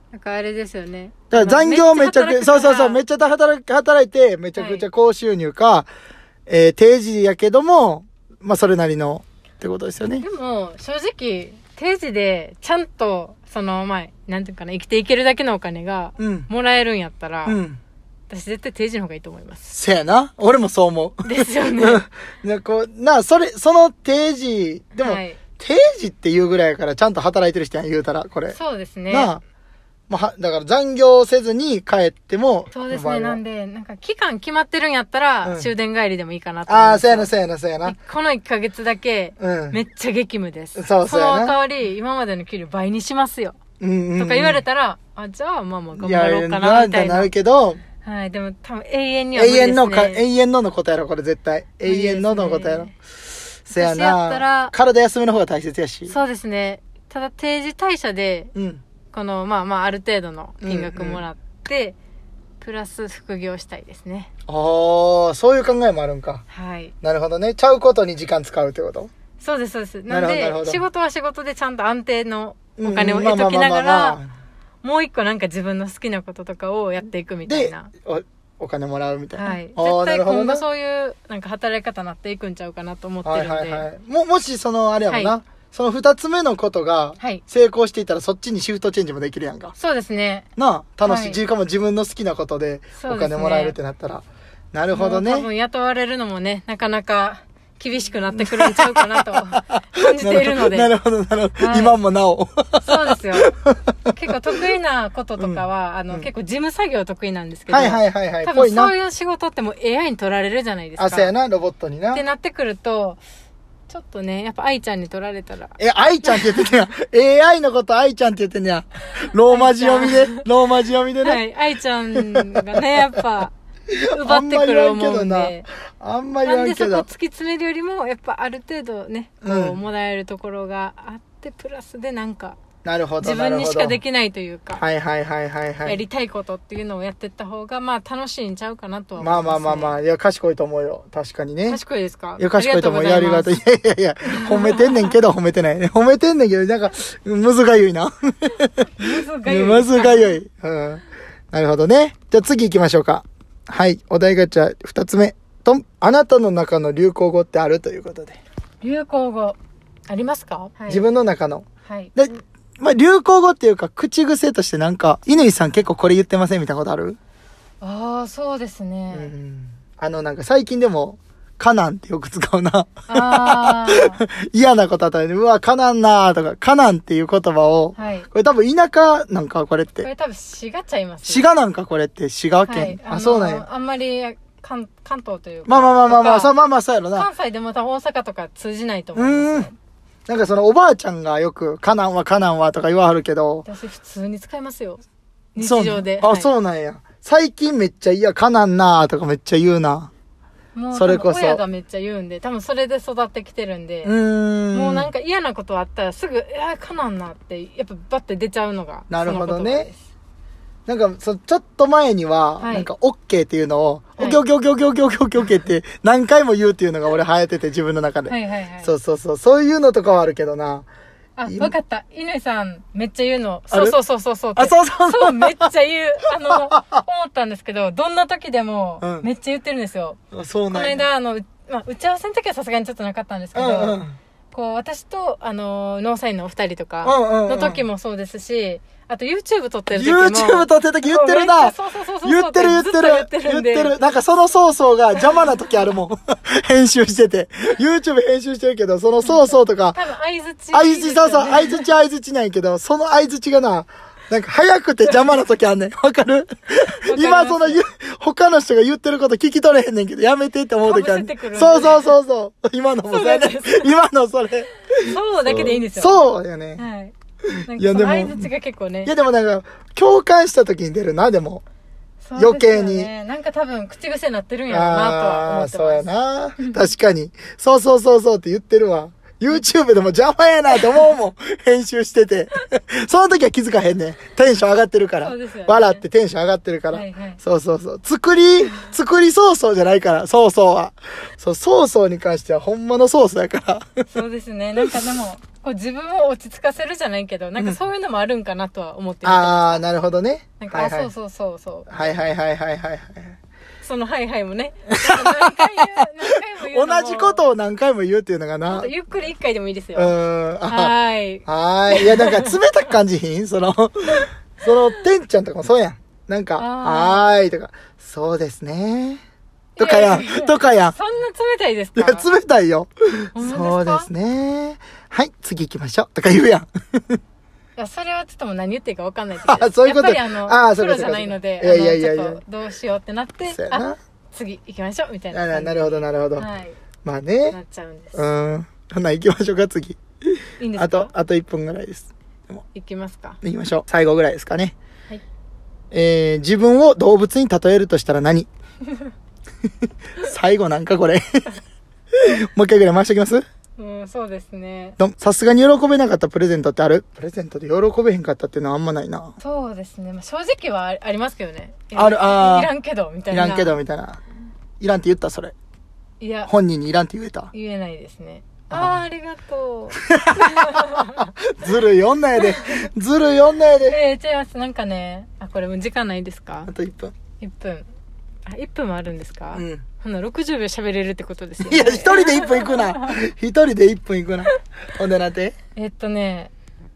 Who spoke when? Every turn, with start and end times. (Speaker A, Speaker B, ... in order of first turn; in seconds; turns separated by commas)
Speaker A: 0.1-3.0, Speaker B: 1.3-5.9, Speaker A: 4.5-4.8, Speaker B: 6.5-10.2, Speaker A: 10.2-17.6, Speaker B: 16.2-16.5, Speaker B: 17.4-17.8, Speaker A: 18.3-19.6, Speaker B: 19.6-28.6, Speaker A: 21.2-22.0, Speaker A: 24.9-25.4, Speaker A: 28.5-29.4, Speaker B: 29.1-29.4, Speaker B: 30.1-33.4, Speaker A: 32.7-37.3, Speaker B: 35.4-35.7, Speaker B: 36.7-38.0, Speaker A: 37.8-43.6, Speaker B: 39.4-39.8, Speaker B: 40.8-41.5, Speaker B: 43.8-44.6, Speaker A: 44.1-47.3, Speaker B: 46.0-47.8, Speaker A: 48.0-50.2, Speaker B: 49.3-52.9, Speaker A: 51.8-52.9, Speaker B: 53.6-56.1, Speaker A: 53.7-54.7, Speaker A: 56.1-58.5, Speaker B: 58.5-58.8, Speaker A: 59.1-62.0, Speaker B: 60.6-61.2, Speaker A: 62.6-64.3, Speaker B: 64.5-66.4, Speaker A: 66.5-66.9, Speaker B: 67.0-69.1, Speaker A: 69.4-74.2, Speaker B: 70.1-70.8, Speaker B: 72.8-74.3, Speaker A: 74.8-77.9, Speaker B: 77.5-80.6, Speaker A: 79.4-83.9, Speaker B: 83.2-89.7, Speaker A: 89.8-90.5, Speaker B: 90.6-95.5, Speaker A: 91.0-91.4, Speaker A: 93.0-93.8, Speaker A: 94.9-100.9, Speaker B: 98.3-103.7, Speaker A: 101.6-102.0, Speaker A: 102.8-103.5, Speaker A: 104.1-111.3, Speaker B: 105.4-106.3, Speaker B: 107.7-108.9, Speaker B: 111.0-112.2, Speaker A: 112.1-113.2, Speaker A: 113.9-116.7, Speaker B: 115.8-121.4, Speaker A: 119.5-120.4, Speaker A: 121.2-123.5, Speaker B: 122.1-123.0, Speaker B: 123.9-127.1, Speaker A: 124.1-125.7, Speaker A: 126.4-132.6, Speaker B: 129.4-129.8, Speaker B: 132.8-134.0, Speaker A: 133.2-134.8, Speaker B: 134.8-136.0, Speaker A: 135.8-140.0, Speaker B: 139.2-141.8, Speaker A: 141.7-143.6, Speaker B: 142.4-158.4, Speaker A: 144.2-145.2, Speaker A: 149.0-150.3, Speaker A: 158.8-161.1, Speaker B: 160.9-167.2, Speaker A: 161.8-162.1, Speaker A: 167.8-169.3, Speaker B: 169.1-180.1, Speaker A: 173.1-174.2, Speaker A: 177.9-178.3, Speaker A: 180.0-181.4, Speaker B: 181.2-183.6, Speaker A: 182.6-186.5, Speaker B: 185.7-187.3, Speaker A: 187.1-189.8, Speaker B: 189.2-189.7, Speaker B: 190.3-193.7, Speaker A: 193.6-195.0, Speaker A: 195.5-196.5, Speaker B: 195.6-200.1, Speaker A: 200.7-204.1, Speaker B: 200.9-201.6, Speaker B: 204.0-205.1, Speaker A: 204.7-210.0, Speaker B: 209.1-209.9, Speaker B: 210.9-220.9, Speaker A: 212.6-212.9, Speaker A: 218.3-218.9, Speaker A: 221.4-230.2, Speaker B: 221.4-221.7, Speaker B: 223.7-224.0, Speaker B: 224.6-225.7, Speaker B: 226.5-227.0, Speaker B: 229.0-229.3, Speaker B: 230.3-231.0, Speaker A: 230.7-234.0, Speaker B: 233.5-234.2, Speaker A: 234.5-243.9, Speaker B: 237.0-237.8, Speaker B: 239.9-250.0, Speaker A: 249.2-251.9, Speaker B: 250.7-266.8, Speaker A: 257.0-257.8, Speaker A: 260.9-262.1, Speaker A: 263.1-263.9, Speaker A: 265.0-266.2, Speaker A: 266.8-267.1, Speaker B: 267.5-268.5, Speaker A: 267.7-269.1, Speaker B: 269.0-271.6, Speaker A: 272.2-276.1, Speaker B: 272.4-273.1, Speaker B: 274.7-294.1, Speaker A: 285.2-286.0, Speaker A: 286.9-287.4, Speaker A: 294.1-299.8, Speaker B: 299.2-301.1, Speaker A: 300.6-302.2, Speaker B: 301.9-303.4, Speaker A: 303.8-307.4, Speaker B: 304.9-305.9, Speaker B: 306.7-308.9, Speaker A: 308.7-310.1, Speaker B: 309.9-310.9, Speaker A: 310.7-312.6, Speaker B: 311.5-319.2, Speaker A: 316.6-317.3, Speaker A: 319.8-322.3, Speaker B: 319.8-320.9, Speaker B: 321.9-327.2, Speaker A: 323.3-324.1, Speaker A: 327.8-336.8, Speaker B: 329.4-332.4, Speaker B: 333.5-334.0, Speaker B: 335.3-336.5, Speaker B: 337.0-337.6, Speaker A: 337.5-338.2, Speaker B: 338.1-340.0, Speaker A: 340.6-341.1, Speaker B: 340.7-342.6, Speaker A: 342.7-343.4, Speaker B: 343.4-344.7, Speaker B: 345.9-348.5, Speaker B: 350.2-351.4, Speaker B: 352.1-353.4, Speaker A: 353.8-355.0, Speaker B: 355.0-359.3, Speaker A: 359.4-363.8, Speaker B: 361.9-362.7, Speaker B: 363.3-364.2, Speaker B: 364.8-365.5, Speaker A: 366.2-366.5, Speaker B: 366.5-367.5, Speaker A: 367.5-371.3, Speaker B: 368.7-369.0, Speaker B: 370.1-374.0, Speaker A: 372.4-372.8, Speaker A: 373.9-376.7, Speaker B: 376.7-377.1, Speaker A: 377.4-377.9, Speaker A: 378.4-383.1, Speaker B: 379.5-379.8, Speaker B: 381.6-385.5, Speaker A: 385.8-386.5